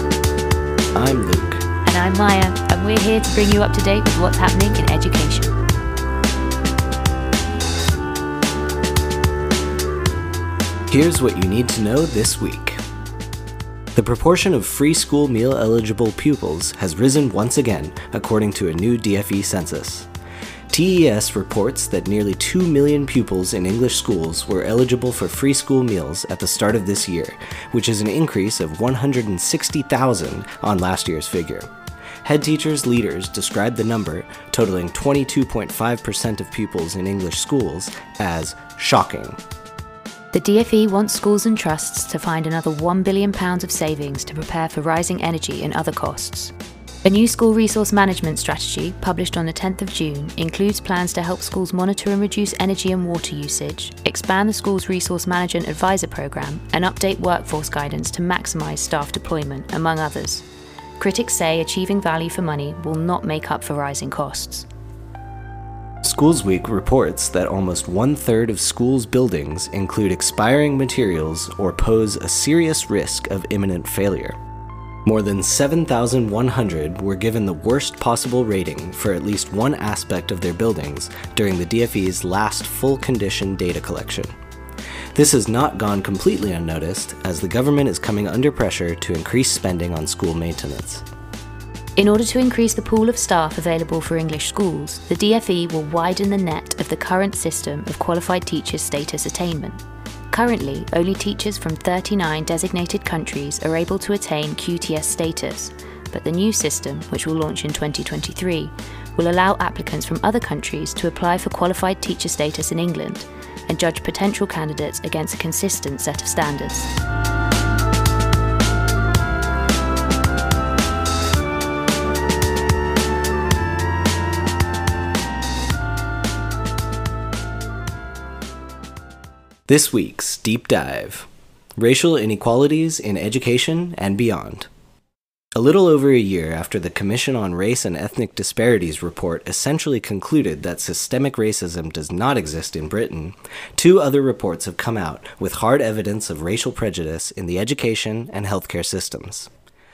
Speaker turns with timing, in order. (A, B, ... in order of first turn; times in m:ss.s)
0:00.9-0:01.6 A
0:01.8-0:05.6 B
0:10.9-0:12.8 A
0:13.9-0:20.1 A
0:20.7-0:31.7 A
0:32.2-0:39.4 A
0:40.3-1:00.4 B
1:01.0-1:04.7 B
1:06.0-1:14.4 A
1:15.0-1:24.3 A
1:25.1-1:31.0 A
1:32.0-1:39.8 B
1:40.3-1:56.9 B
2:09.7-2:14.7 A
2:15.5-2:29.5 A